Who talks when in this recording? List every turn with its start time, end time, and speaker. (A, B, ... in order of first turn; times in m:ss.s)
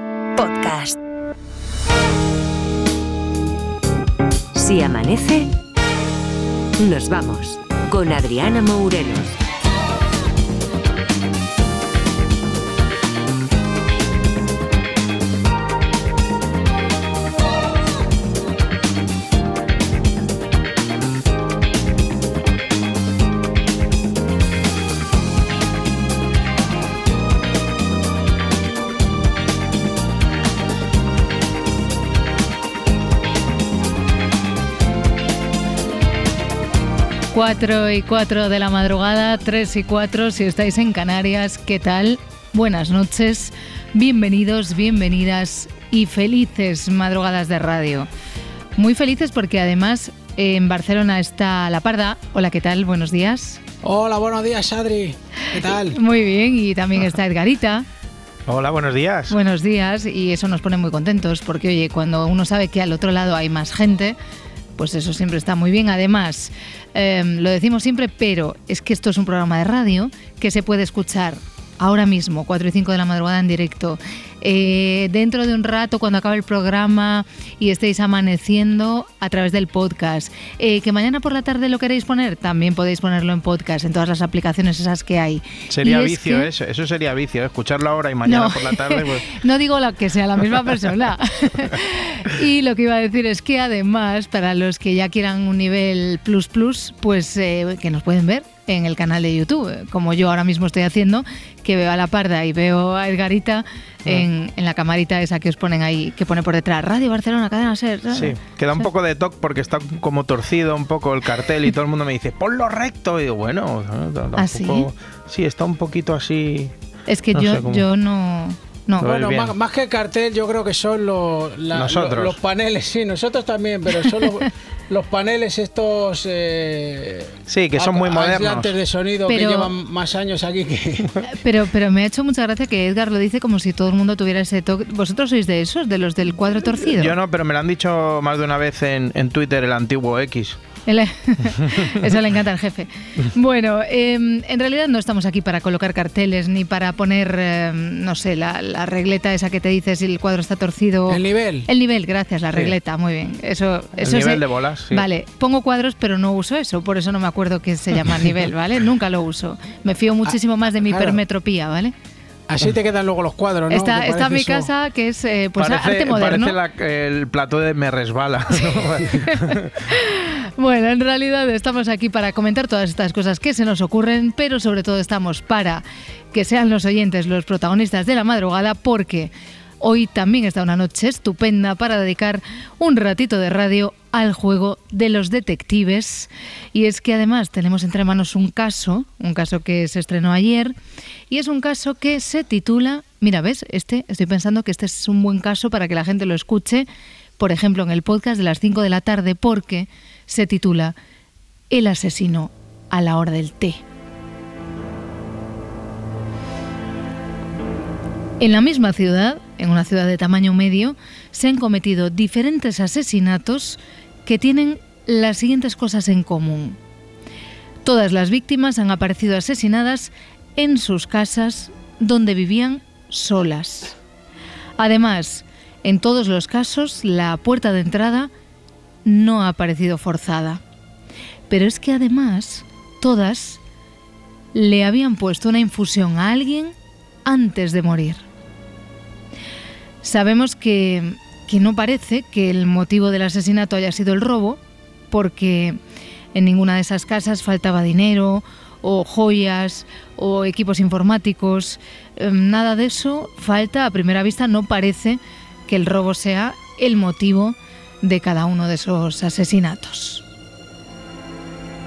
0:00.4-0:01.0 A
0:04.5-0:05.5 A
0:06.8-0:09.4 A
0:37.3-0:48.1 B
0:48.8-0:53.6 B
0:53.8-0:56.0 C
0:55.7-0:57.9 B
0:58.5-0:59.4 D
0:59.3-1:04.2 B
1:04.8-1:26.5 B
1:25.7-1:29.3 D
1:28.2-1:48.9 B
1:48.1-1:56.7 D
1:54.4-1:54.9 B
1:57.1-1:59.2 B
1:57.3-1:57.8 D
1:59.0-1:59.6 D
1:59.2-2:11.1 C
2:01.7-2:02.4 D
2:07.5-2:08.7 D
2:09.3-2:09.7 B
2:11.3-2:17.2 B
2:16.9-2:20.6 D
2:20.9-2:41.9 B
2:31.1-2:31.7 C
2:34.0-2:35.0 D
2:40.9-2:41.2 C
2:42.5-2:44.7 C
2:43.7-2:46.6 B
2:45.6-2:49.7 D
2:49.2-3:10.8 B
3:11.3-3:16.9 B
3:17.4-3:20.9 B
3:21.7-3:23.8 B
3:28.4-3:36.8 B
3:37.8-3:44.0 B
3:44.8-3:48.3 B
3:49.0-3:50.6 B
3:51.5-3:53.6 B
3:54.5-3:56.7 B
3:57.2-3:58.2 B
4:00.0-4:04.6 B
4:05.1-4:05.8 B
4:06.3-4:20.2 B